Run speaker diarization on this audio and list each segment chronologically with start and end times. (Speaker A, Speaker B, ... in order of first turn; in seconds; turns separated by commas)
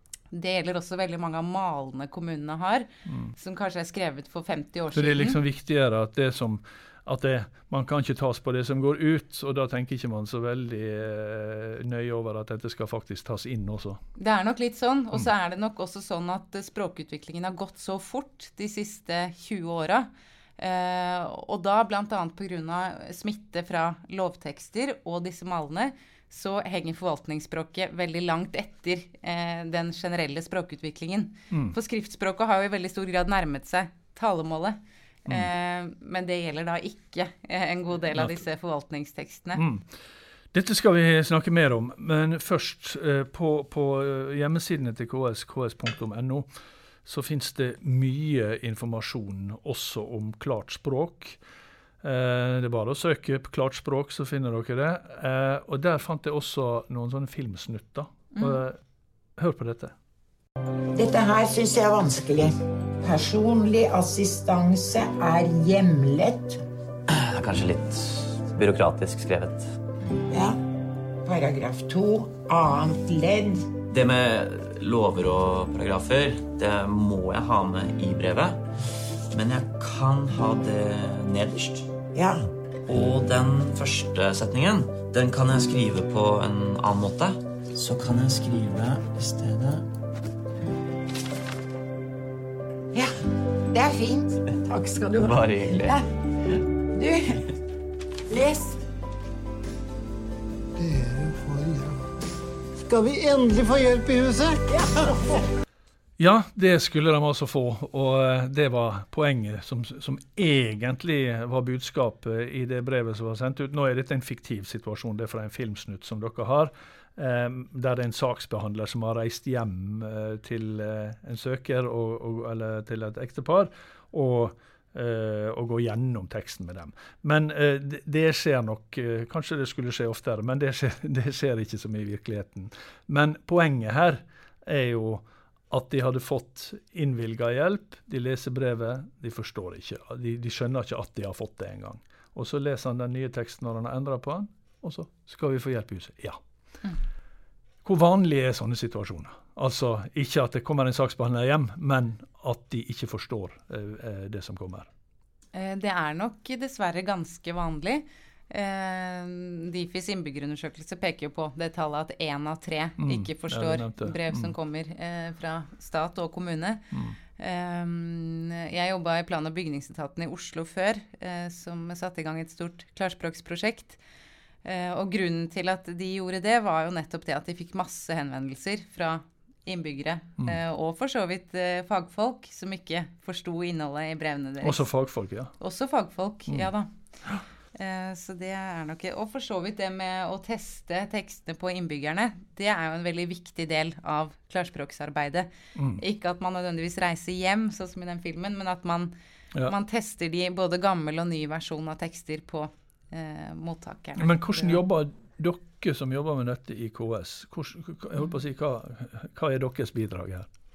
Speaker A: 0.3-5.4, Speaker B: 3.1-3.3, Speaker B: 4.9-14.0, Speaker A: 14.2-39.6, Speaker B: 31.5-31.8, Speaker B: 39.5-39.9, Speaker B: 40.5-46.5, Speaker B: 47.0-51.4, Speaker B: 52.0-58.8, Speaker B: 59.4-59.9, Speaker C: 60.9-66.6, Speaker D: 67.1-69.7, Speaker C: 70.3-70.6, Speaker C: 71.2-73.7, Speaker D: 73.9-78.6, Speaker D: 79.3-81.9, Speaker C: 82.2-82.5, Speaker D: 82.9-89.8, Speaker C: 93.7-96.1, Speaker D: 95.2-96.0, Speaker C: 96.9-97.4, Speaker C: 98.3-98.8, Speaker E: 100.8-101.8, Speaker E: 102.9-104.6, Speaker B: 106.2-146.4, Speaker B: 147.8-154.9, Speaker A: 155.5-166.8, Speaker B: 163.0-164.6, Speaker B: 166.9-167.2, Speaker A: 167.4-174.0, Speaker A: 174.6-184.9, Speaker B: 184.6-185.5, Speaker A: 185.6-186.9, Speaker A: 187.7-199.1, Speaker B: 195.8-196.0, Speaker A: 199.7-204.8, Speaker B: 204.2-210.5